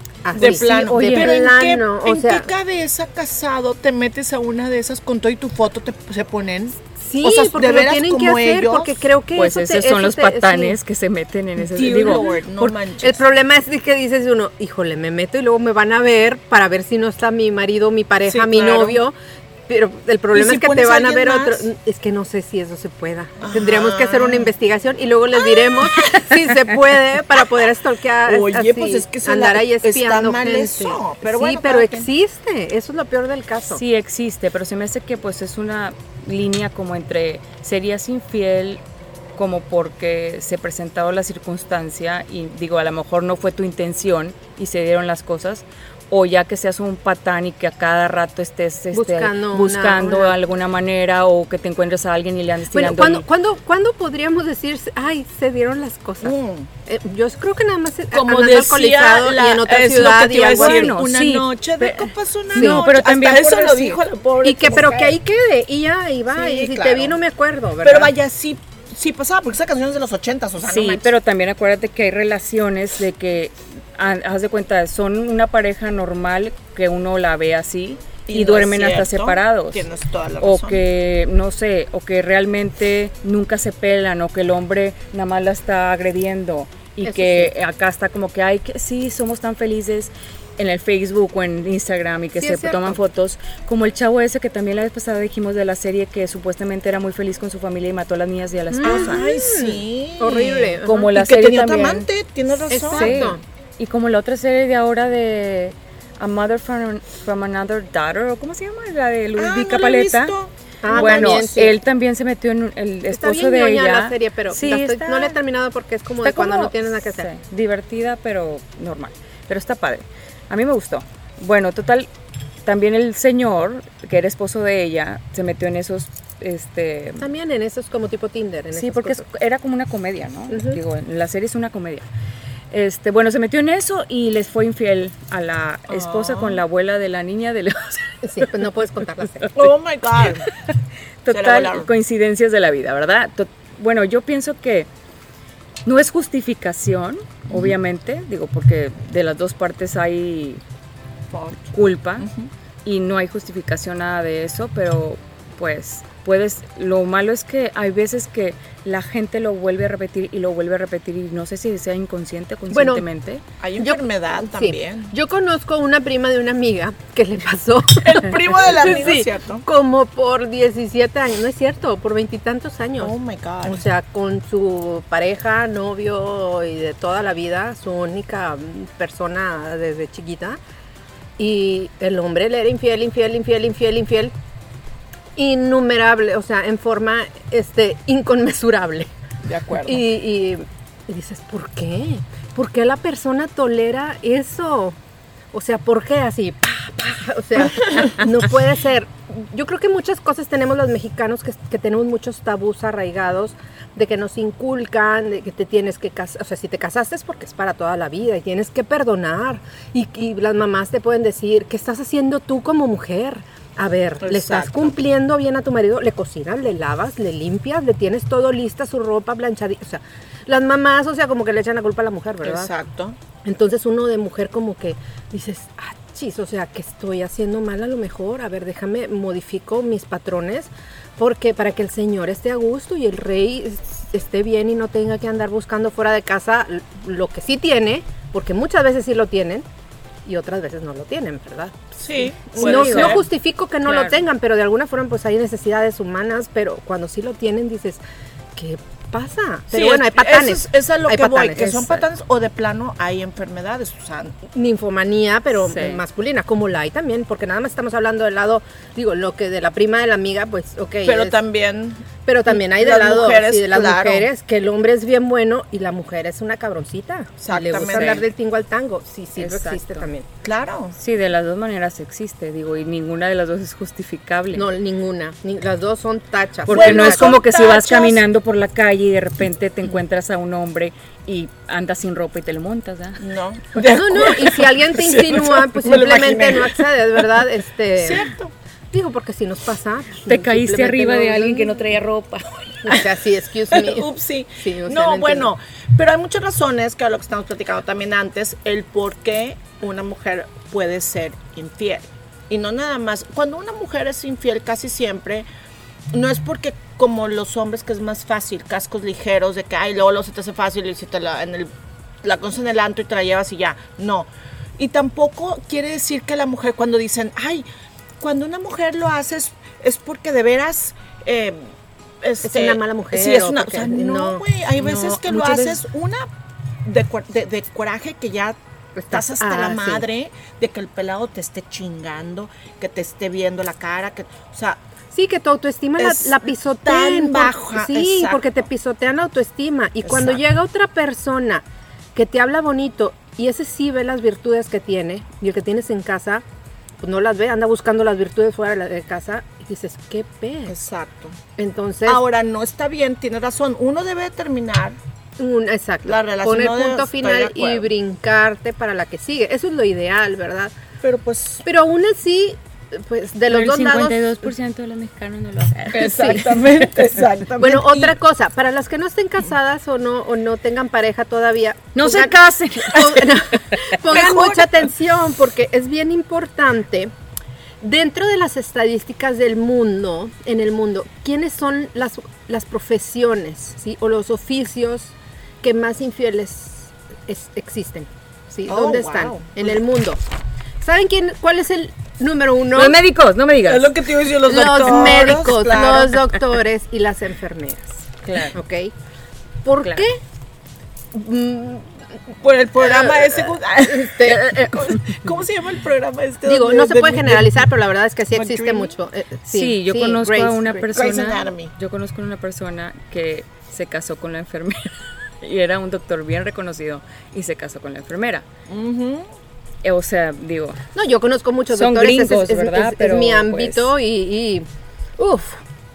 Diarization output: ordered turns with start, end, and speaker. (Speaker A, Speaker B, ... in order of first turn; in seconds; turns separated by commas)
Speaker A: 0.2-2.5, Speaker B: 0.3-1.4, Speaker C: 0.4-9.0, Speaker A: 7.0-10.8, Speaker B: 9.3-12.8, Speaker C: 11.6-13.2, Speaker A: 13.0-19.1, Speaker C: 18.3-19.0, Speaker A: 19.7-33.8, Speaker C: 20.3-21.7, Speaker C: 23.4-24.5, Speaker C: 25.4-26.2, Speaker C: 28.3-32.1, Speaker B: 33.7-38.8, Speaker B: 39.4-53.2, Speaker A: 48.9-50.4, Speaker A: 52.7-56.4, Speaker C: 56.2-56.7, Speaker A: 56.9-61.0, Speaker C: 58.1-65.2, Speaker B: 60.4-64.0, Speaker A: 62.6-62.8, Speaker A: 64.4-68.1, Speaker C: 66.3-67.2, Speaker C: 67.8-71.1, Speaker B: 70.6-79.9, Speaker C: 78.3-80.8, Speaker B: 80.4-99.2, Speaker A: 87.0-87.5, Speaker A: 92.4-93.0, Speaker A: 98.7-101.0, Speaker C: 98.8-103.3, Speaker B: 100.9-102.1, Speaker A: 102.7-103.4, Speaker B: 102.9-110.3, Speaker C: 109.4-111.5, Speaker A: 110.8-111.8, Speaker B: 110.9-115.3, Speaker A: 113.1-117.3, Speaker B: 116.2-122.1, Speaker B: 122.7-127.3, Speaker A: 127.2-129.2, Speaker B: 128.7-132.1, Speaker A: 130.5-130.8, Speaker B: 132.7-138.5, Speaker C: 135.9-136.6, Speaker A: 138.2-139.6, Speaker C: 139.6-140.5, Speaker B: 141.2-144.9, Speaker C: 141.3-141.9, Speaker B: 145.9-150.6, Speaker C: 151.3-152.5, Speaker B: 151.7-152.3, Speaker B: 152.8-163.4, Speaker A: 162.7-163.1, Speaker C: 163.6-165.1, Speaker A: 163.8-180.6, Speaker C: 168.0-169.6, Speaker C: 173.0-173.8, Speaker A: 181.4-184.3, Speaker A: 185.4-189.1, Speaker C: 189.4-190.0, Speaker A: 189.8-195.0, Speaker A: 195.5-222.7, Speaker C: 214.2-215.0, Speaker C: 222.4-223.2, Speaker A: 223.4-239.7, Speaker A: 240.3-248.0, Speaker C: 242.0-243.3, Speaker B: 242.6-243.3, Speaker B: 243.8-244.2, Speaker A: 248.6-251.8, Speaker C: 249.7-254.4, Speaker B: 251.6-252.1, Speaker A: 254.5-261.4, Speaker B: 255.6-256.0, Speaker C: 261.1-264.3, Speaker A: 262.3-270.3, Speaker C: 267.4-268.2, Speaker B: 267.8-268.2, Speaker B: 269.4-270.1, Speaker C: 270.4-271.0, Speaker B: 271.0-274.6, Speaker A: 274.6-277.4, Speaker B: 276.7-283.2, Speaker C: 276.7-278.2, Speaker C: 283.2-287.3, Speaker A: 283.8-288.3, Speaker C: 288.0-288.5, Speaker A: 288.9-291.9, Speaker B: 290.3-292.5, Speaker A: 292.8-295.5, Speaker C: 292.8-293.1, Speaker C: 293.7-305.5, Speaker C: 306.1-311.7, Speaker C: 312.2-317.7, Speaker C: 318.2-326.3, Speaker A: 322.4-325.8, Speaker C: 326.8-328.6, Speaker A: 329.0-330.1, Speaker C: 329.1-334.8, Speaker A: 335.1-341.6, Speaker C: 336.0-338.6, Speaker C: 340.0-340.4, Speaker A: 342.1-346.4, Speaker A: 347.0-350.8, Speaker C: 350.7-351.4, Speaker A: 351.6-352.2, Speaker C: 352.1-355.0, Speaker A: 355.4-360.7, Speaker C: 356.1-357.9, Speaker C: 361.0-361.6, Speaker A: 361.6-364.4, Speaker B: 363.5-366.4, Speaker C: 365.9-368.1, Speaker A: 365.9-366.5, Speaker A: 367.6-377.1, Speaker B: 371.9-373.8, Speaker C: 374.1-374.9, Speaker A: 377.8-390.2, Speaker C: 388.7-389.8, Speaker A: 390.8-393.0, Speaker B: 392.8-393.9, Speaker C: 393.7-396.3, Speaker A: 394.4-398.9, Speaker B: 398.2-398.6, Speaker A: 399.6-400.2, Speaker A: 401.1-401.9, Speaker C: 402.4-407.7, Speaker A: 402.8-404.5, Speaker B: 404.3-405.2, Speaker A: 406.4-410.8, Speaker C: 408.3-408.9, Speaker B: 409.5-418.4, Speaker C: 410.9-411.7, Speaker C: 418.7-419.3, Speaker B: 419.8-420.8, Speaker A: 420.9-424.7, Speaker B: 421.7-423.9, Speaker A: 425.2-425.6